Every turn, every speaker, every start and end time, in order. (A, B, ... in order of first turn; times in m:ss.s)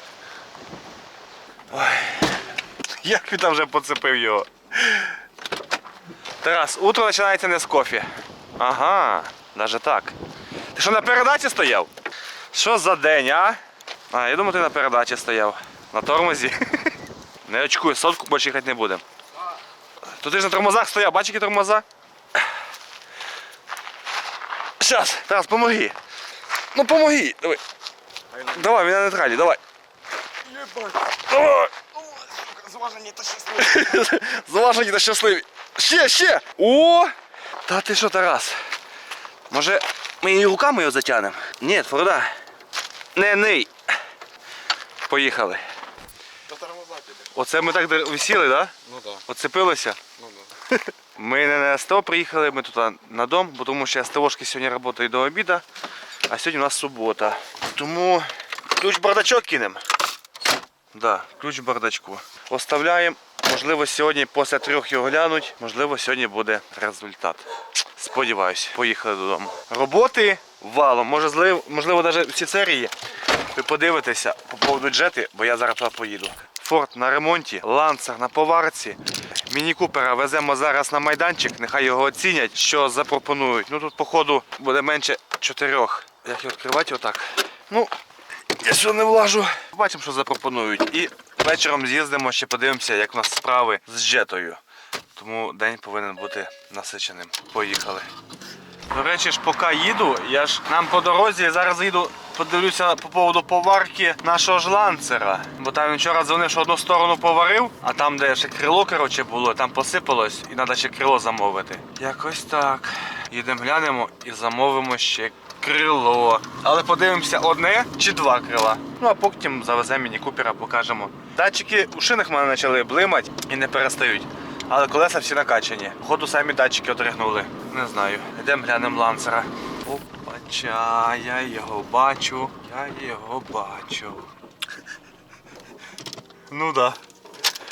0:01.7-0:02.4 A
0:03.0-0:05.2 A
0:06.4-0:10.2 A
0:10.8-0:11.9 A
0:12.5-0:13.6 A
0:14.1-0:16.9 A
0:17.5-0:19.0 A
0:20.0-0:21.8 A
0:24.8-0:26.0 A
0:26.7-0:27.6 A
0:28.3-0:28.6 B
0:28.5-0:29.6 A
0:30.5-0:31.1 B
0:31.3-0:31.7 A
0:32.0-0:33.8 B
0:33.6-0:37.1 A
0:37.7-0:38.6 A
0:39.5-0:42.4 A
0:43.2-0:43.7 A
0:45.1-0:45.6 A
0:46.5-0:47.3 B
0:47.3-0:48.7 A
0:48.9-0:49.2 B
0:49.3-0:50.0 A
0:50.2-0:50.5 B
0:50.7-0:55.6 A
0:56.3-0:59.8 A
1:00.9-1:07.5 A
1:08.0-1:12.9 A
1:13.5-1:27.9 A
1:28.6-1:34.6 A
1:35.2-1:38.1 A
1:38.9-2:14.3 A
2:16.5-2:17.0 A